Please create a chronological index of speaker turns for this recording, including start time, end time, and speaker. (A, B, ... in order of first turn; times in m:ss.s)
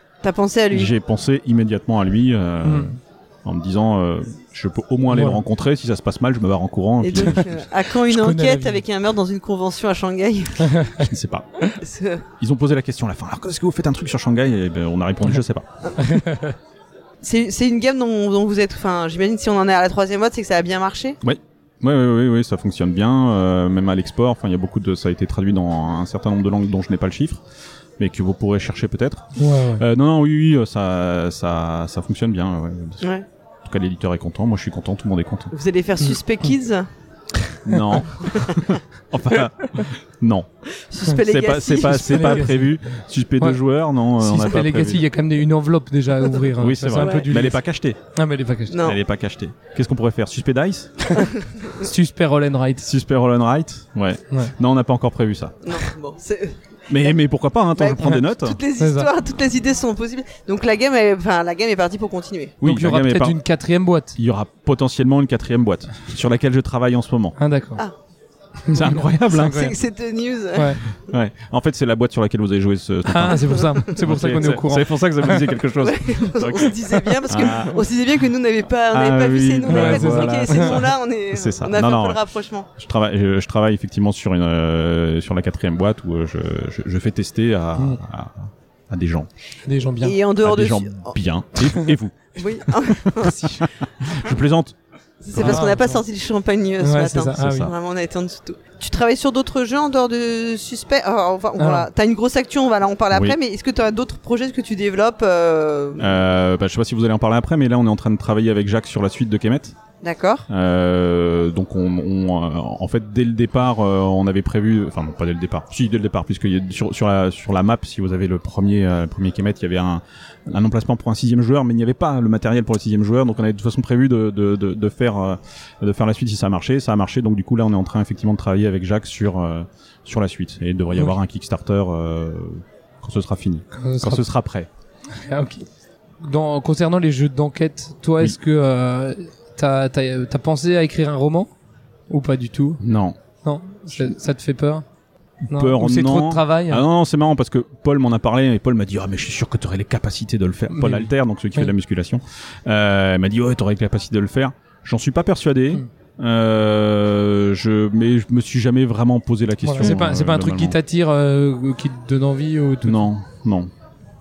0:00.2-0:00.9 A
0:00.7-0:07.6 B
0:02.6-0:03.0 C
0:05.1-0:05.4 C
0:07.0-0:11.0 A
0:08.1-0:08.8 C
0:10.6-0:11.1 C
0:11.0-0:11.5 B
0:11.8-0:12.2 A
0:12.4-0:15.7 B
0:16.0-0:16.5 C
0:17.2-0:21.2 A
0:21.2-0:27.4 B
0:28.0-0:33.1 B
0:29.4-0:29.8 C
0:33.6-0:35.5 B
0:35.5-0:36.9 A
0:37.6-0:40.5 B
0:38.2-0:38.6 A
0:40.8-0:42.5 A
0:41.2-0:45.0 B
0:41.8-0:42.7 C
0:44.2-0:47.6 C
0:46.6-0:48.0 B
0:46.9-0:47.3 A
0:48.1-0:48.8 C
0:48.7-0:49.0 A
0:48.8-0:51.2 B
0:51.2-0:51.9 A
0:51.8-0:52.9 C
0:52.8-0:55.6 B
0:55.6-0:57.1 A
0:56.9-0:58.6 B
0:57.8-1:02.6 A
0:58.8-0:59.1 C
1:02.6-1:03.4 B
1:02.6-1:04.2 C
1:04.2-1:07.4 B
1:07.4-1:07.8 C
1:08.7-1:09.8 C
1:08.7-1:09.7 B
1:08.8-1:10.8 A
1:10.6-1:10.8 C
1:11.1-1:17.9 B
1:13.1-1:15.5 C
1:15.8-1:22.7 A
1:18.9-1:22.2 B
1:19.7-1:20.8 C
1:22.8-1:29.3 B
1:29.6-1:30.2 C
1:30.0-1:31.2 A
1:30.4-1:34.8 B
1:32.4-1:33.7 A
1:35.2-1:46.2 A
1:35.3-1:35.7 B
1:35.4-1:36.0 C
1:36.8-1:37.7 C
1:37.4-1:37.7 B
1:41.6-1:41.9 C
1:43.1-1:43.4 B
1:46.0-1:49.8 B
1:50.0-1:50.5 A
1:50.5-2:14.7 B
2:13.8-2:14.2 C
2:15.2-2:15.7 C
2:16.2-2:21.5 C
2:22.1-2:22.8 C
2:22.8-2:23.2 B
2:23.4-2:24.8 C
2:25.4-2:40.8 B
2:25.5-2:26.8 C
2:30.7-2:31.7 C
2:39.6-2:43.1 C
2:42.8-2:43.7 B